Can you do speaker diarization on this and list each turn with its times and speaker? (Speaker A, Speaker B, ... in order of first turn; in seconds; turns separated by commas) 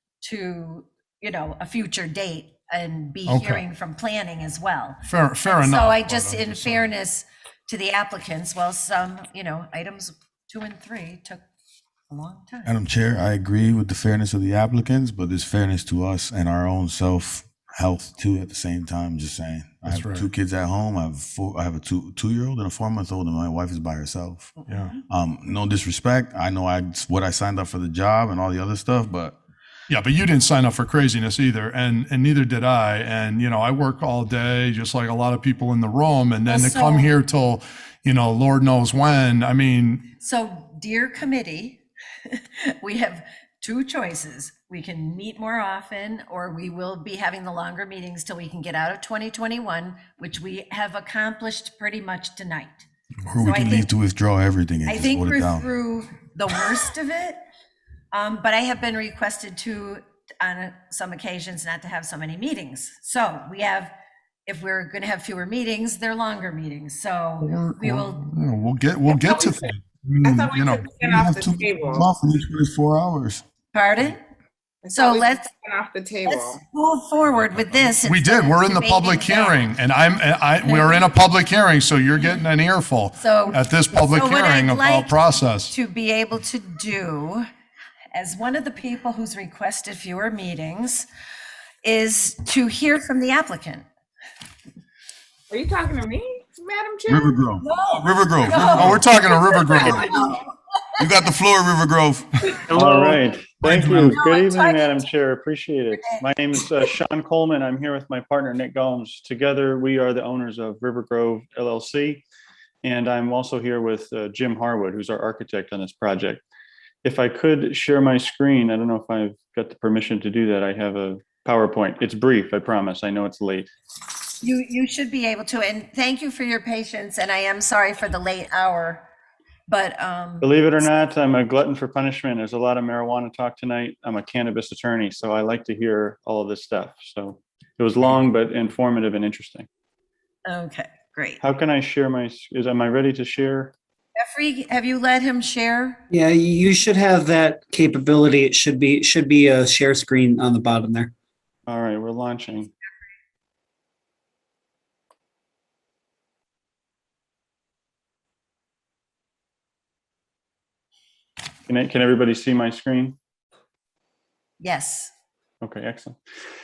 Speaker A: 0.2-11.4, Speaker B: 3.2-3.6, Speaker B: 5.0-6.9, Speaker A: 12.1-12.7, Speaker C: 12.7-24.5, Speaker B: 19.9-20.3, Speaker A: 24.6-25.0, Speaker B: 24.7-24.9, Speaker C: 25.1-29.4, Speaker B: 29.9-40.0, Speaker A: 36.4-37.1, Speaker A: 40.2-52.9, Speaker C: 53.2-55.7, Speaker A: 53.4-53.9, Speaker A: 54.9-57.4, Speaker A: 58.1-63.9, Speaker A: 64.5-68.2, Speaker B: 67.4-71.0, Speaker D: 69.3-69.6, Speaker D: 70.2-72.1, Speaker C: 71.0-73.4, Speaker A: 73.7-74.2, Speaker D: 74.8-76.6, Speaker A: 74.9-75.5, Speaker A: 76.2-79.7, Speaker B: 77.7-85.7, Speaker A: 80.6-81.0, Speaker A: 83.2-87.5, Speaker A: 88.1-91.1, Speaker A: 91.8-93.8, Speaker D: 95.5-97.4, Speaker C: 97.1-99.2, Speaker A: 97.6-100.4, Speaker B: 98.7-100.2, Speaker C: 101.0-102.4, Speaker E: 102.7-112.2, Speaker B: 103.6-104.2, Speaker A: 103.9-105.1, Speaker A: 106.0-106.2, Speaker E: 112.8-116.4, Speaker E: 117.0-123.7, Speaker A: 124.4-129.1, Speaker A: 129.7-130.8, Speaker E: 130.4-139.7, Speaker A: 140.4-141.4, Speaker E: 141.4-143.7, Speaker A: 144.1-146.0, Speaker F: 146.1-151.1, Speaker E: 151.7-152.7, Speaker E: 161.7-163.2, Speaker A: 164.6-165.1, Speaker E: 165.6-166.2